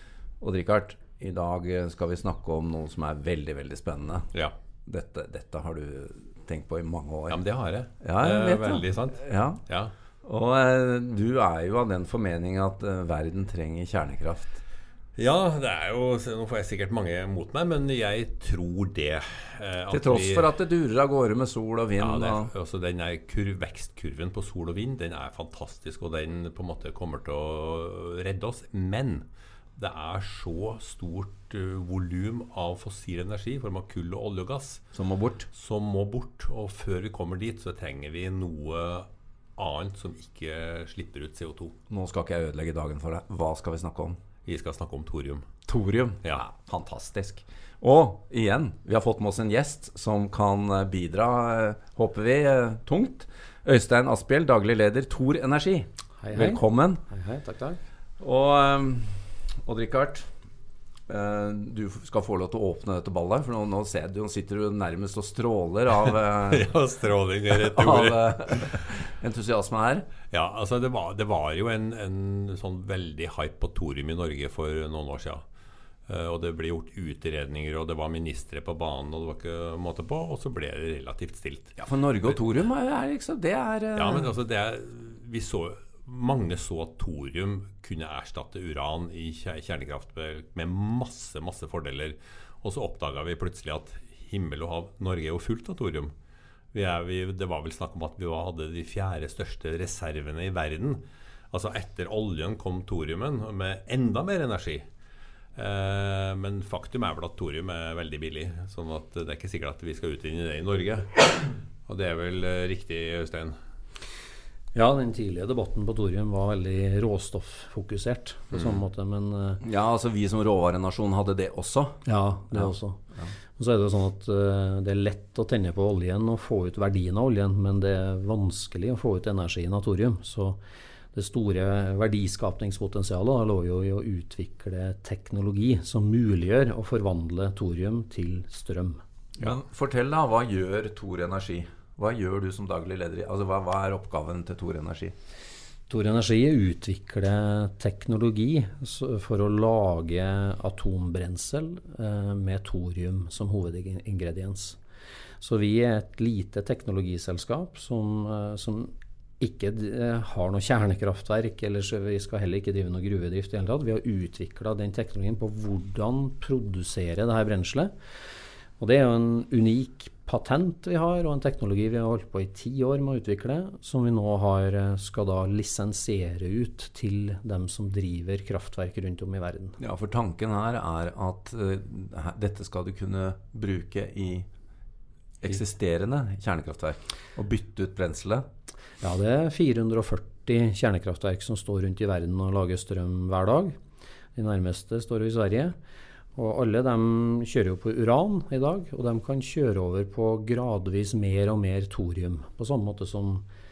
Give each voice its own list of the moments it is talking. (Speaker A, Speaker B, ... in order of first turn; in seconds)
Speaker A: 0.4-4.3, 4.9-7.4, 8.0-9.6, 10.2-14.6, 19.9-22.5, 34.9-35.5, 41.9-44.2, 45.7-57.0, 58.2-60.3, 61.1-66.7, 67.5-70.1, 81.8-84.3, 119.6-123.3, 139.4-145.1, 179.8-184.5, 185.4-188.4
Speaker B: 7.3-9.9, 15.2-20.5, 22.0-29.3, 29.8-34.8, 35.5-41.7, 44.5-45.5, 66.5-68.8, 70.3-75.4, 76.1-81.8, 84.0-96.1, 96.7-104.8, 105.5-113.6
Speaker C: 56.2-57.8, 114.7-119.6, 122.0-123.0, 123.6-130.6, 131.1-139.0, 145.9-154.8, 155.4-167.9, 168.8-179.8, 189.0-193.8, 194.3-195.8, 196.4-203.5